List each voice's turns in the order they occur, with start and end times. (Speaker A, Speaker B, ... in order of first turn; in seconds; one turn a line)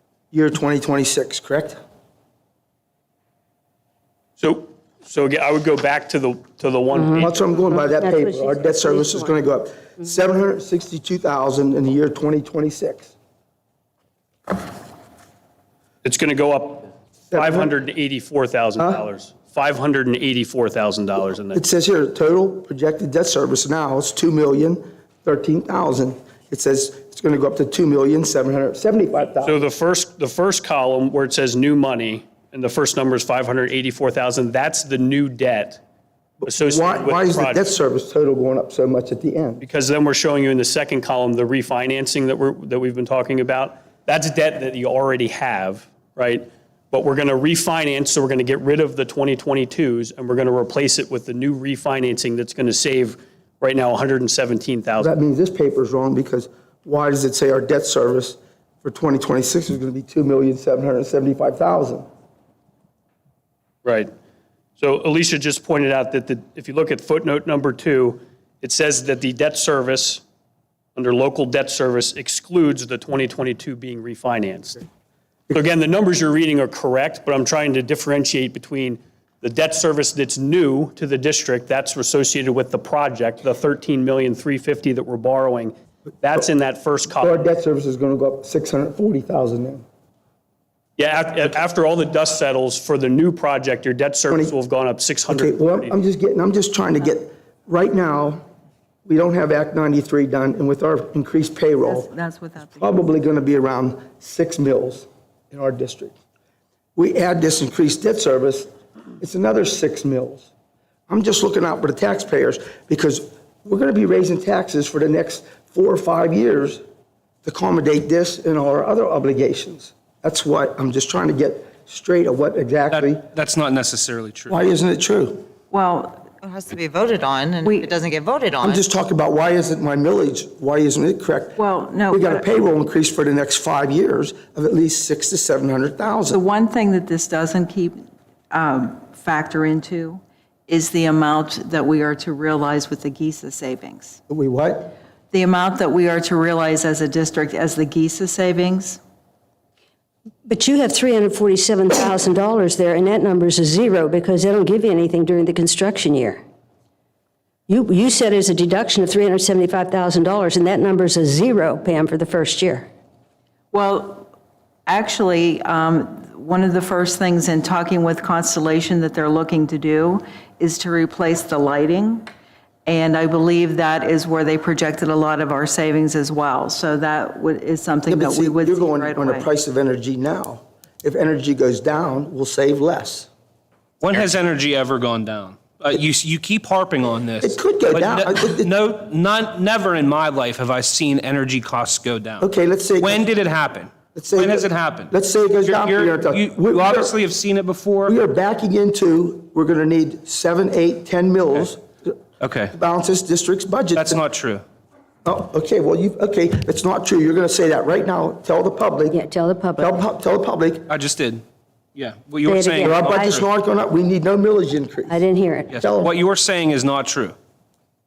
Speaker A: 0.3-1.8
Speaker B: 4.4-7.5
Speaker C: 6.9-9.4
Speaker A: 7.2-13.1
Speaker B: 16.0-21.6
Speaker A: 17.3-17.7
Speaker A: 21.5-29.6
Speaker B: 29.4-35.8
Speaker A: 36.4-39.6
Speaker B: 36.5-37.6
Speaker B: 39.6-55.1
Speaker A: 55.0-62.1
Speaker B: 64.8-70.2
Speaker B: 71.0-74.8
Speaker B: 75.5-87.5
Speaker A: 87.2-89.8
Speaker B: 91.0-96.0
Speaker A: 95.3-98.4
Speaker A: 99.1-102.1
Speaker D: 101.8-103.1
Speaker A: 102.8-106.1
Speaker A: 107.0-108.7
Speaker A: 109.2-110.5
Speaker A: 111.1-116.8
Speaker A: 117.4-123.2
Speaker E: 122.9-124.6
Speaker A: 124.5-125.5
Speaker D: 125.7-126.3
Speaker F: 126.4-128.8
Speaker D: 127.6-127.9
Speaker A: 128.6-136.4
Speaker D: 131.6-132.5
Speaker D: 136.2-138.0
Speaker D: 138.5-144.2
Speaker A: 144.3-144.9
Speaker D: 145.3-149.0
Speaker C: 150.5-156.4
Speaker C: 157.7-162.9
Speaker D: 163.7-164.3
Speaker D: 164.8-172.3
Speaker D: 172.8-179.5
Speaker A: 178.1-183.3
Speaker E: 184.0-192.4
Speaker A: 187.4-188.7
Speaker A: 192.4-193.2
Speaker E: 193.0-195.1
Speaker A: 194.2-197.2
Speaker E: 195.7-198.1
Speaker A: 198.0-202.2
Speaker E: 202.4-202.7
Speaker A: 202.7-204.2
Speaker E: 203.9-204.6
Speaker A: 205.2-209.2
Speaker C: 209.1-210.0
Speaker A: 209.8-210.9
Speaker E: 210.9-211.4
Speaker E: 212.0-213.3
Speaker C: 212.4-213.4
Speaker A: 212.8-216.1
Speaker C: 215.1-215.8
Speaker E: 215.9-217.3